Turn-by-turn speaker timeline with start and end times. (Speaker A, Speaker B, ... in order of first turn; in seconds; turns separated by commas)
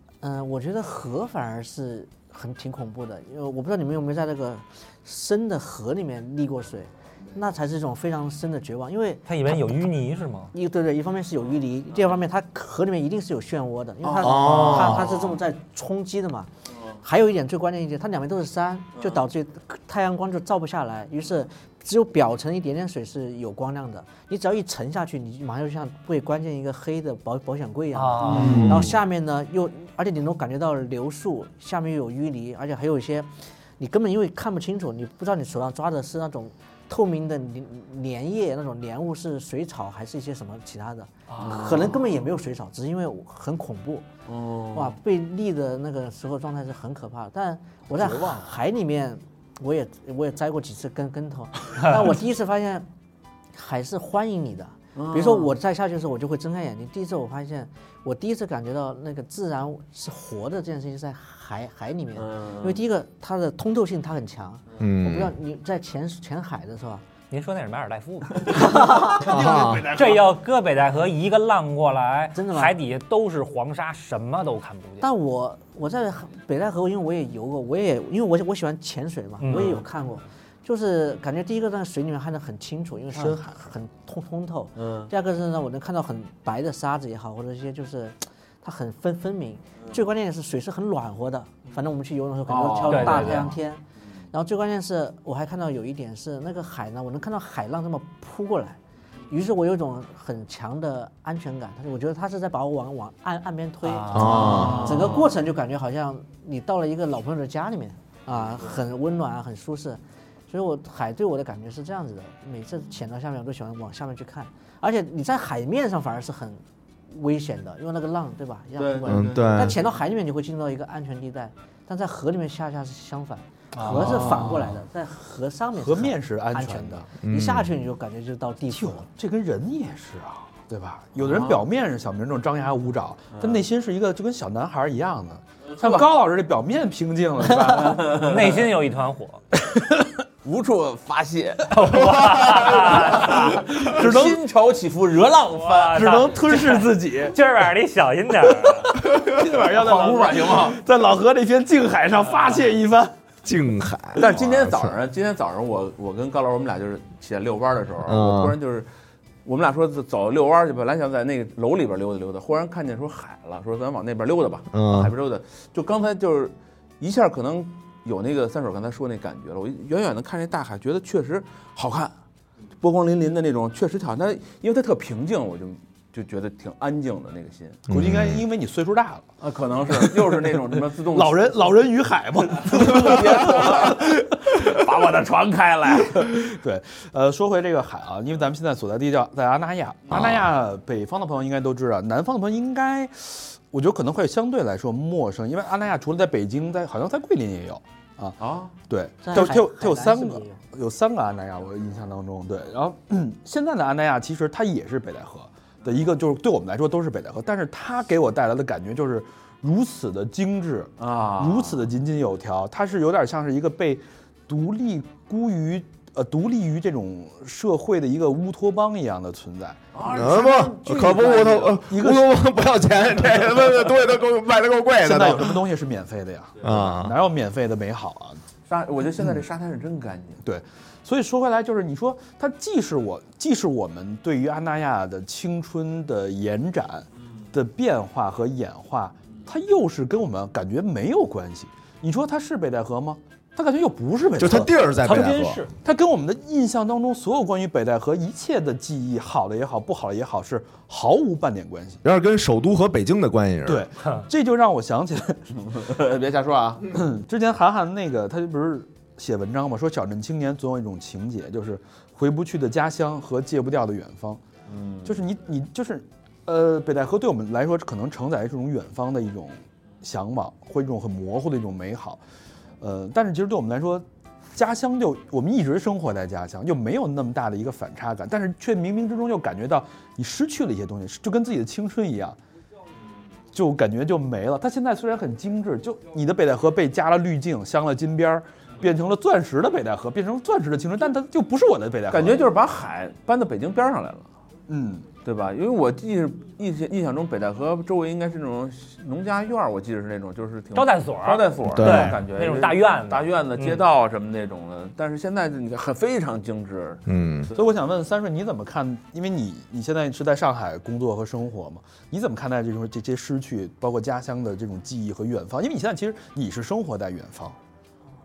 Speaker A: 0.2-9.9, Speaker B: 9.3-10.5, Speaker A: 10.5-16.5, Speaker C: 14.0-15.4, Speaker D: 14.2-15.1, Speaker A: 17.0-44.1, Speaker C: 19.0-19.2, Speaker B: 27.9-28.8, Speaker C: 28.3-28.9, Speaker D: 28.4-28.9, Speaker E: 41.3-41.7, Speaker C: 41.4-42.0, Speaker C: 44.3-44.9, Speaker A: 44.7-52.9, Speaker E: 48.0-48.5, Speaker A: 53.5-67.0, Speaker C: 55.0-55.5, Speaker C: 62.2-62.8, Speaker D: 64.8-65.3, Speaker B: 67.3-69.0, Speaker E: 68.5-70.4, Speaker A: 68.6-69.0, Speaker D: 69.2-69.9, Speaker B: 69.9-75.1, Speaker A: 72.3-72.7, Speaker A: 75.0-98.8, Speaker B: 79.4-79.8, Speaker C: 84.8-85.1, Speaker C: 92.5-93.4, Speaker B: 92.9-93.5, Speaker A: 99.3-129.1, Speaker B: 103.9-104.9, Speaker D: 104.1-104.9, Speaker C: 104.1-105.3, Speaker C: 108.5-108.8, Speaker C: 118.8-119.8, Speaker D: 119.1-119.8, Speaker E: 123.8-124.7, Speaker C: 123.8-124.7, Speaker E: 125.8-127.1, Speaker D: 127.2-127.7, Speaker E: 128.7-138.2, Speaker C: 131.2-131.6, Speaker C: 133.4-133.6, Speaker C: 135.7-136.1, Speaker C: 137.6-138.7, Speaker B: 138.1-139.4, Speaker E: 139.6-140.1, Speaker C: 140.4-146.1, Speaker B: 141.7-143.7, Speaker E: 143.6-144.4, Speaker B: 145.6-149.0, Speaker E: 145.9-147.4, Speaker E: 148.9-153.2, Speaker C: 149.6-150.8, Speaker D: 153.4-154.9, Speaker C: 154.2-158.9, Speaker D: 158.0-158.6, Speaker C: 159.4-172.1, Speaker D: 164.7-165.1, Speaker C: 172.8-177.9, Speaker D: 177.9-178.4, Speaker E: 177.9-184.2, Speaker C: 179.4-181.8, Speaker C: 182.6-186.3, Speaker E: 186.1-222.3, Speaker C: 190.2-190.4, Speaker C: 198.4-198.7, Speaker A: 199.2-200.6, Speaker C: 211.0-211.9, Speaker C: 219.9-221.8, Speaker D: 220.1-225.6, Speaker E: 225.0-228.4, Speaker D: 226.6-227.2, Speaker C: 228.7-230.4, Speaker E: 230.4-244.7, Speaker D: 244.4-245.6, Speaker B: 245.0-245.7, Speaker E: 245.8-252.0, Speaker D: 252.0-253.9, Speaker E: 253.7-255.6, Speaker C: 255.6-256.9, Speaker E: 256.9-264.4, Speaker C: 264.7-265.2, Speaker E: 265.1-272.2, Speaker E: 272.8-282.4, Speaker E: 283.5-292.5, Speaker C: 292.1-294.3, Speaker E: 294.7-295.1, Speaker C: 295.2-307.6, Speaker B: 300.8-303.8, Speaker D: 301.7-302.2, Speaker D: 307.1-307.5, Speaker E: 307.6-317.6